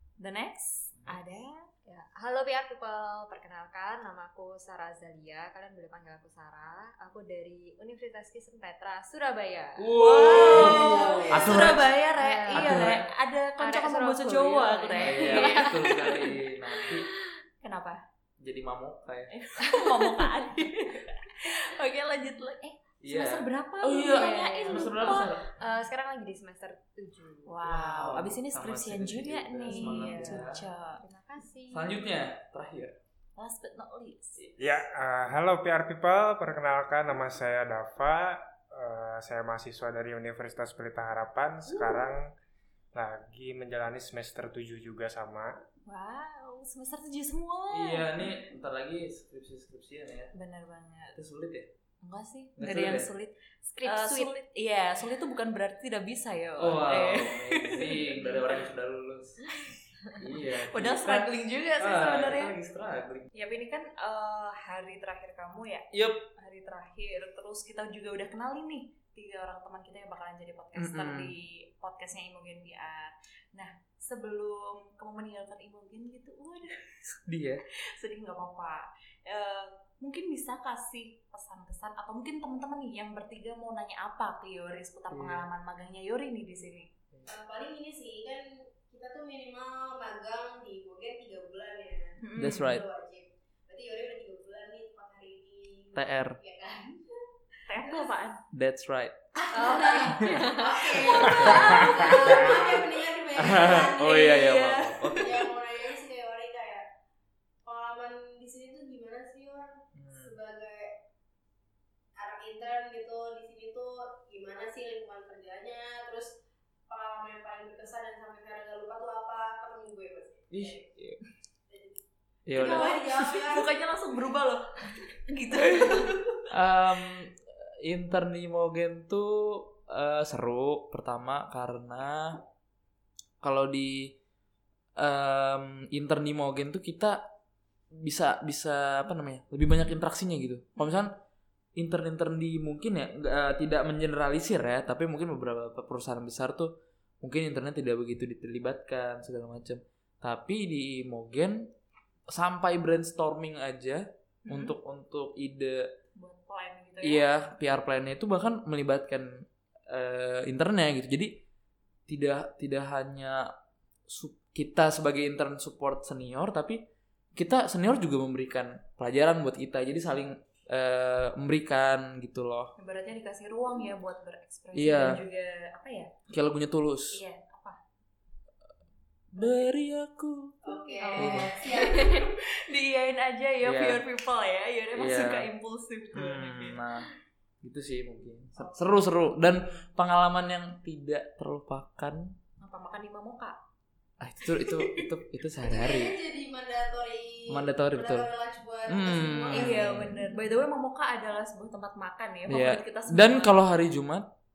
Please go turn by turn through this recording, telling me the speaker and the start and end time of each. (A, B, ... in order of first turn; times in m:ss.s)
0:00.2-0:01.6 A
0:01.8-0:13.0 B
0:09.8-0:11.9 C
0:09.9-0:16.3 A
0:10.4-0:11.6 D
0:12.5-0:13.0 C
0:13.6-0:16.0 B
0:15.0-0:17.1 C
0:17.6-0:18.0 A
0:18.4-0:19.3 C
0:19.3-0:25.3 A
0:23.0-0:25.4 C
0:24.1-0:27.6 B
0:27.4-0:31.0 A
0:27.6-0:30.6 C
0:29.7-0:32.0 B
0:31.7-0:33.0 C
0:33.4-0:34.4 A
0:34.4-0:34.7 C
0:34.6-0:42.3 E
0:42.9-0:45.6 E
0:45.8-0:48.4 A
0:47.7-0:50.3 C
0:50.3-0:51.1 A
0:51.1-0:51.7 C
0:52.0-0:58.7 A
0:52.6-0:53.1 C
0:53.7-0:54.3 B
0:56.6-0:59.5 C
0:59.6-1:02.5 A
1:00.1-1:03.3 C
1:03.3-1:17.2 A
1:05.9-1:06.2 C
1:10.8-1:11.3 C
1:17.2-1:17.6 C
1:17.9-1:26.9 A
1:25.1-1:25.5 C
1:27.3-1:37.2 D
1:32.2-1:32.7 A
1:32.4-1:32.8 C
1:35.9-1:36.4 C
1:37.7-1:38.4 A
1:38.5-1:39.2 C
1:39.5-1:44.4 D
1:39.5-1:42.6 A
1:39.5-1:40.9 B
1:41.0-1:42.8 C
1:41.5-1:42.0 E
1:43.4-1:45.5 C
1:43.5-1:45.3 A
1:45.2-1:46.9 D
1:47.6-1:50.9 D
1:49.9-1:50.4 C
1:52.2-1:56.4 D
1:56.9-2:00.8 D
2:00.5-2:01.2 C
2:01.7-2:02.0 D
2:02.5-2:03.0 C
2:02.5-2:03.7 D
2:02.6-2:06.4 A
2:06.5-2:12.4 C
2:13.4-2:14.2 C
2:15.0-2:17.2 C
2:17.9-2:21.1 C
2:20.8-2:21.0 A
2:21.8-2:31.7 C
2:32.3-2:35.9 C
2:34.4-2:34.7 A
2:36.2-2:37.2 A
2:37.0-2:41.3 C
2:42.1-2:43.5 C
2:44.1-2:46.8 C
2:47.4-2:52.7 C
2:52.8-2:56.1 A
2:54.7-2:55.2 C
2:56.3-2:57.2 C
2:57.1-2:57.8 A
2:59.3-3:00.6 C
2:59.4-2:59.7 A
3:00.6-3:02.3 D
3:00.9-3:06.8 A
3:01.1-3:01.6 C
3:03.6-3:04.0 C
3:04.9-3:05.5 C
3:06.1-3:07.1 C
3:07.6-3:12.3 C
3:08.6-3:08.8 D
3:12.6-3:13.6 A
3:14.2-3:16.2 C
3:14.5-3:15.1 A
3:15.6-3:19.9 D
3:17.5-3:18.3 C
3:18.9-3:20.3 C
3:19.5-3:23.6 A
3:22.5-3:24.3 C